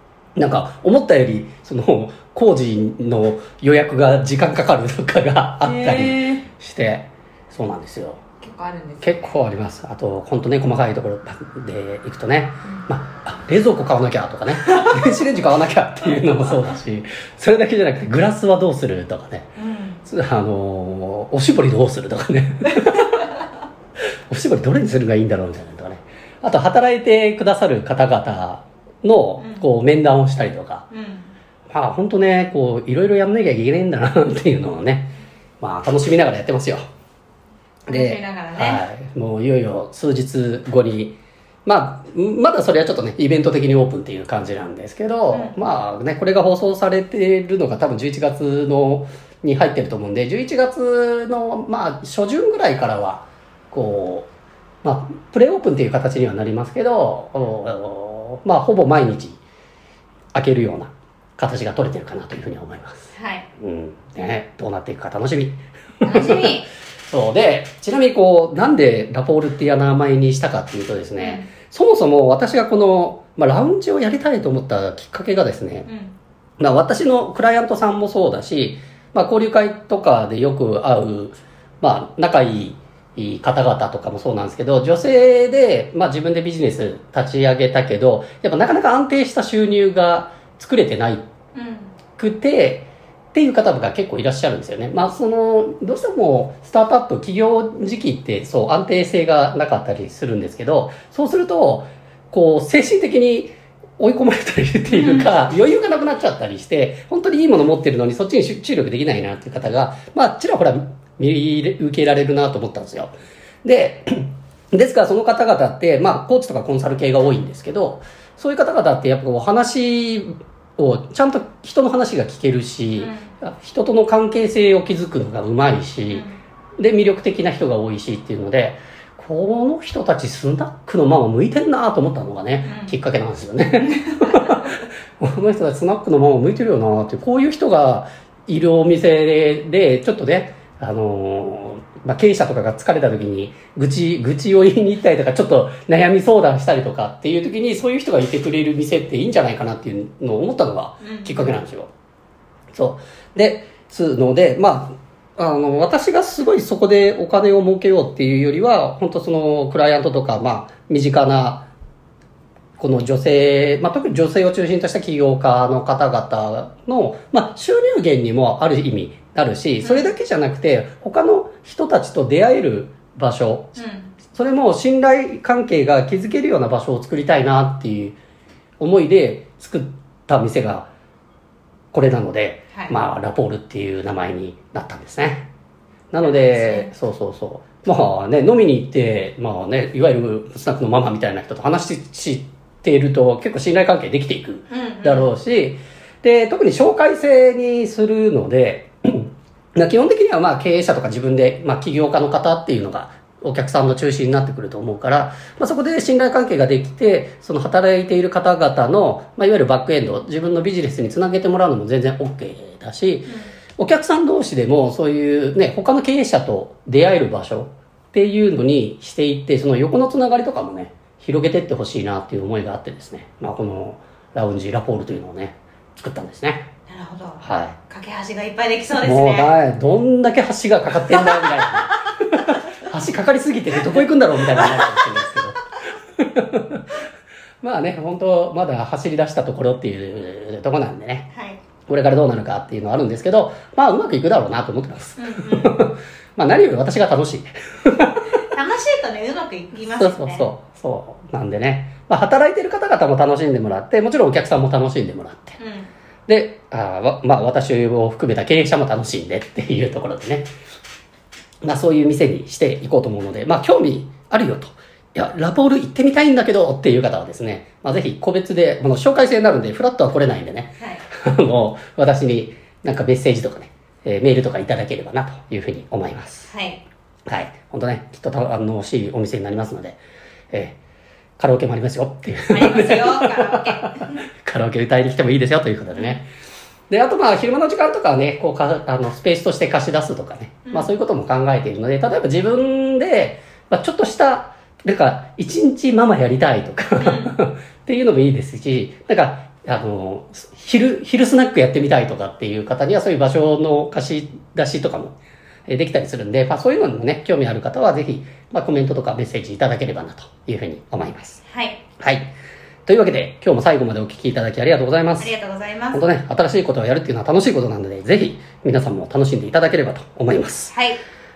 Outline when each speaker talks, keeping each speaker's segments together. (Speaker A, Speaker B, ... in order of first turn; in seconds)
Speaker A: 0.3-8.2, 9.0-19.5, 20.0-23.3, 24.3-30.8, 31.7-36.8, 37.9-54.3, 54.8-59.4, 60.3-63.0, 63.6-75.9, 76.6-91.2, 92.2-113.1, 113.6-126.2, 126.8-151.9, 152.7-161.7, 162.8-173.8, 174.3-178.2, 178.8-180.9, 181.9-185.5, 186.1-226.7, 227.4-227.8, 228.9-235.6, 236.2-236.8, 237.6-241.3, 241.9-248.2, 250.0-255.6, 256.3-260.5, 261.6-276.5, 277.3-280.0, 280.5-280.8, 281.4-283.9, 284.4-286.3, 286.9-305.1, 305.7-311.4, 312.0-312.3, 312.9-315.3, 315.9-320.7
Speaker B: 5.6-6.4, 8.4-9.4, 19.6-20.0, 29.4-29.6, 30.9-31.3, 37.9-38.8, 45.3-45.5, 63.1-63.5, 66.0-66.7, 71.2-71.5, 75.9-76.1, 91.5-92.0, 104.9-105.3, 123.0-123.3, 126.1-126.4, 132.6-132.9, 133.8-134.3, 151.0-151.5, 169.8-170.1, 173.8-174.1, 186.2-186.9, 194.7-195.3, 226.9-229.5, 231.1-231.7, 234.6-235.0, 241.3-241.6, 245.2-245.8, 248.5-250.5, 255.6-255.9, 270.8-271.0, 276.5-276.8, 282.5-284.2, 297.0-297.3, 311.5-311.8, 315.2-316.0, 320.7-321.0